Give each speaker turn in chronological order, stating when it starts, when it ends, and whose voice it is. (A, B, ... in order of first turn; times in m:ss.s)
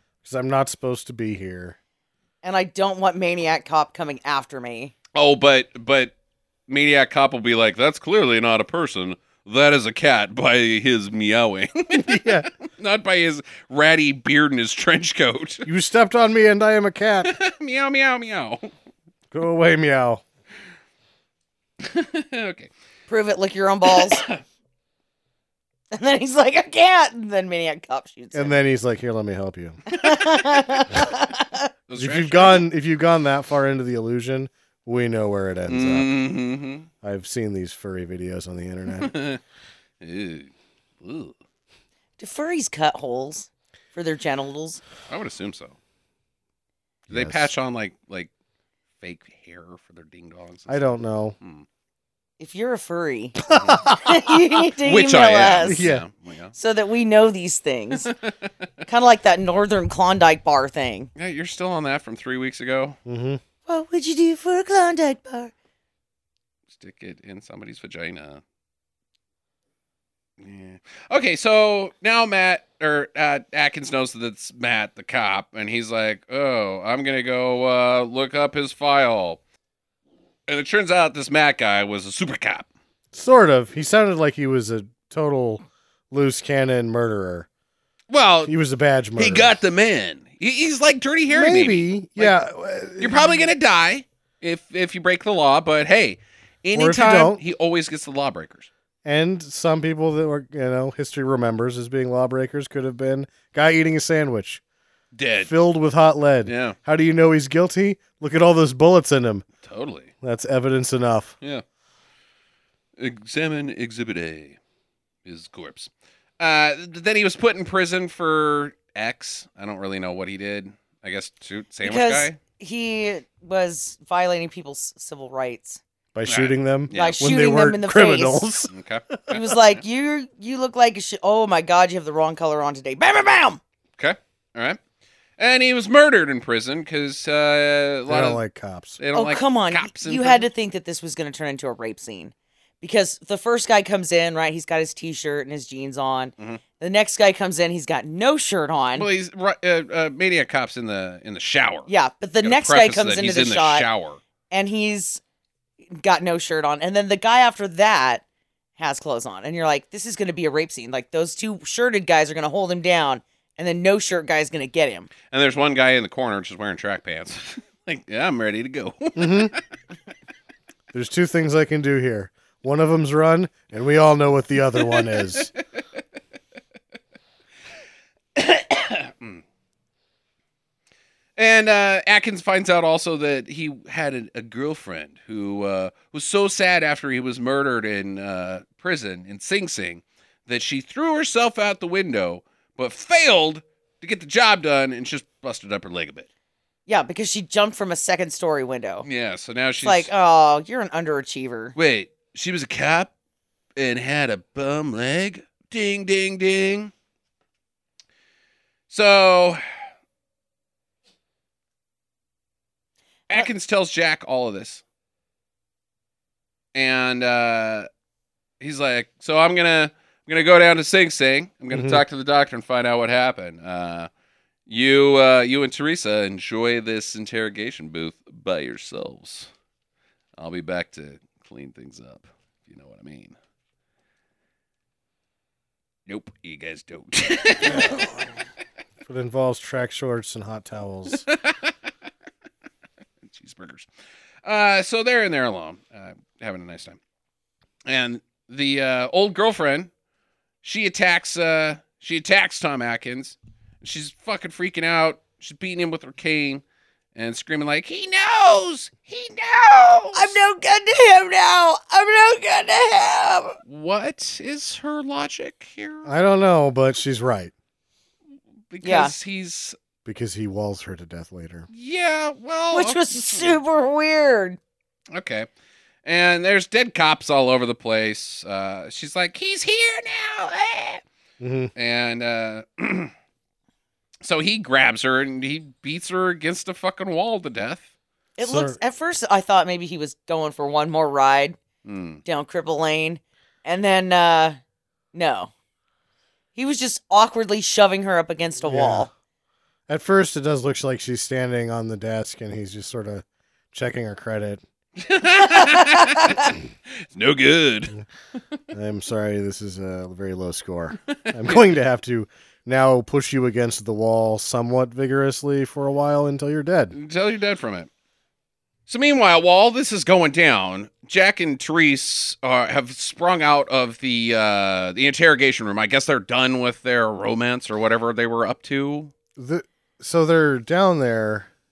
0:00.2-0:01.8 A
0:02.4-0:04.9 B
0:05.1-0:06.1 C
0:06.7-0:15.7 C
0:12.0-0:12.5 A
0:15.6-0:17.3 A
0:17.2-0:18.7 C
0:19.3-0:20.2 A
0:21.8-0:22.7 C
0:23.1-0:24.2 B
0:23.9-0:24.4 C
0:25.9-0:28.6 B
0:28.3-0:29.8 A
0:29.9-0:31.7 B
0:31.9-0:32.7 C
0:32.0-0:36.2 A
0:35.7-0:36.9 C
0:37.0-0:39.1 A
0:38.9-0:39.4 C
0:40.0-0:41.3 C
0:42.2-0:44.8 B
0:45.1-0:45.7 C
0:47.1-0:47.5 A
0:47.1-0:48.3 C
0:49.0-0:51.6 C
0:50.7-0:51.3 A
0:52.4-0:55.8 B
0:53.5-0:54.0 C
0:53.5-0:54.2 A
0:54.8-0:56.5 C
0:55.6-0:56.0 A
0:56.6-0:58.1 B
0:58.0-0:58.3 C
0:58.9-1:01.1 B
1:01.2-1:03.0 C
1:03.0-1:03.4 A
1:03.7-1:05.5 B
1:06.7-1:08.4 C
1:10.4-1:19.4 C
1:20.5-1:22.7 C
1:23.1-1:27.5 A
1:28.1-1:28.5 C
1:28.4-1:29.6 A
1:29.2-1:32.4 C
1:31.3-1:33.4 A
1:33.0-1:38.7 C
1:36.7-1:37.4 A
1:39.0-1:44.6 A
1:45.1-1:45.5 C
1:45.4-1:49.4 A
1:46.4-1:46.8 C
1:49.6-1:50.1 C
1:50.2-1:51.3 A
1:53.0-1:54.6 C
1:55.2-2:02.4 C
2:01.8-2:05.8 B
2:06.1-2:09.3 A
2:06.3-2:07.2 C
2:06.9-2:08.5 B
2:08.7-2:09.6 C
2:09.3-2:13.6 B
2:14.0-2:14.8 C
2:15.4-2:18.4 C
2:18.1-2:19.0 A
2:19.0-2:20.5 C
2:19.1-2:29.1 B
2:29.0-2:31.9 C
2:31.9-2:33.9 B
2:32.4-2:34.2 C
2:34.5-2:35.2 B
2:35.9-2:38.2 B
2:38.8-2:45.1 B
2:45.3-2:49.6 C
2:49.2-2:49.5 A
2:50.9-2:55.5 A
2:58.4-2:59.4 C
3:01.4-3:16.3 C
3:16.9-3:19.0 B
3:19.0-3:20.1 C
3:19.8-3:21.8 B
3:21.8-3:23.1 C
3:23.8-3:26.9 C
3:28.9-3:29.6 C
3:33.3-3:34.8 C
3:36.7-3:37.9 C
3:38.6-3:44.1 C
3:41.7-3:42.0 A
3:44.7-3:49.5 C
3:50.4-3:53.4 C
3:56.1-3:58.1 C
3:57.6-3:58.2 A
3:59.0-4:01.2 A
4:01.2-4:01.7 C
4:03.2-4:03.9 C
4:04.4-4:07.0 C
4:07.8-4:09.9 C
4:10.6-4:16.6 C
4:17.1-4:20.3 C
4:20.1-4:23.6 B
4:23.6-4:26.1 C
4:26.0-4:27.5 A
4:28.7-4:29.8 C
4:28.8-4:29.1 B
4:30.0-4:31.7 A
4:31.7-4:33.6 C
4:32.7-4:34.6 B
4:35.1-4:35.5 C
4:36.0-4:41.0 C
4:41.4-4:41.7 A
4:41.8-4:43.1 C
4:44.2-4:47.9 C
4:48.4-4:51.6 B
4:48.4-4:48.8 A
4:51.8-4:52.2 C
4:52.2-4:54.6 B
4:55.1-4:55.5 B
4:56.6-4:59.1 B
4:58.6-4:59.1 A
4:59.9-5:04.6 A
5:05.0-5:08.0 C
5:05.5-5:06.5 B
5:08.7-5:16.9 A
5:11.1-5:11.6 C
5:16.9-5:17.9 C
5:18.9-5:29.1 C
5:29.4-5:31.5 A